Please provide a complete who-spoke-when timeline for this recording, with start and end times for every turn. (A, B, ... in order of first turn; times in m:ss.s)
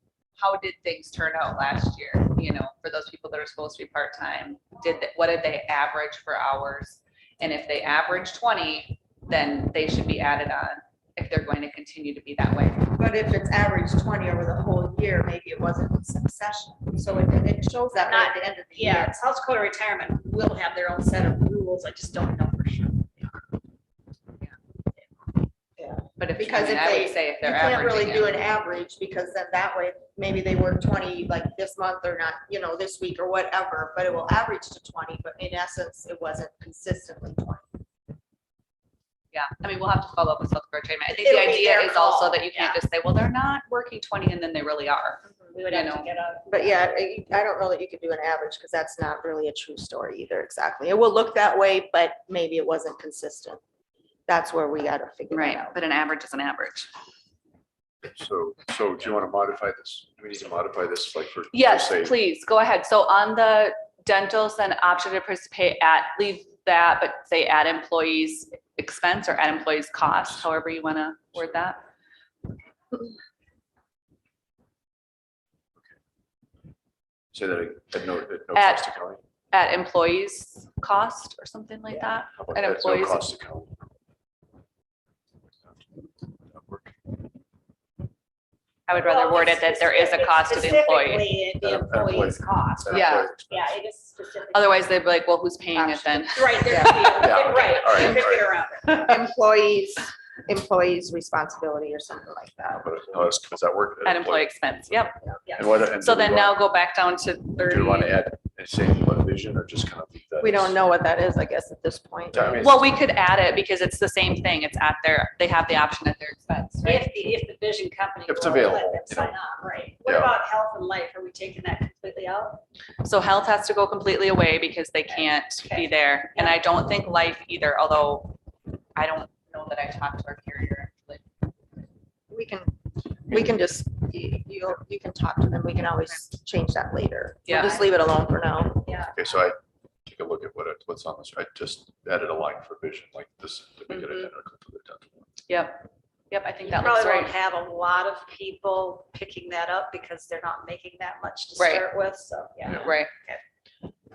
0:00.4-0:12.9 A
0:13.0-0:19.2 B
0:18.0-0:23.6 C
0:25.8-0:37.7 B
0:26.2-0:28.4 A
0:39.3-0:46.1 A
0:41.1-0:42.8 C
0:45.5-0:46.7 C
0:46.5-0:53.6 B
0:54.3-0:55.8 B
0:55.3-0:56.9 A
0:58.1-1:02.1 D
1:01.5-1:11.8 A
1:17.3-1:19.2 D
1:18.6-1:18.9 A
1:19.5-1:23.3 A
1:22.4-1:23.9 D
1:26.5-1:27.2 D
1:28.9-1:31.4 A
1:28.9-1:34.8 C
1:31.6-1:33.8 D
1:32.9-1:33.3 A
1:34.5-1:37.4 A
1:35.7-1:36.9 B
1:36.3-1:39.0 C
1:37.2-1:38.5 D
1:38.8-1:43.3 B
1:42.8-1:44.5 D
1:44.0-1:45.2 A
1:45.5-1:45.8 C
1:45.6-1:46.6 D
1:45.9-1:48.2 A
1:47.6-1:50.8 D
1:50.4-1:52.7 B
1:52.3-1:52.8 D
1:52.6-1:57.1 A
1:56.8-2:02.6 C
1:58.3-1:59.4 D
2:00.0-2:00.3 D
2:03.0-2:08.4 A
2:05.1-2:06.6 C
2:09.0-2:11.2 A
2:12.3-2:19.0 B
2:17.5-2:17.9 A
2:18.8-2:19.2 C
2:19.1-2:25.3 D
2:23.9-2:24.3 A
2:25.5-2:27.4 A
2:26.6-2:33.4 C
2:31.6-2:31.9 A
2:32.7-2:33.1 A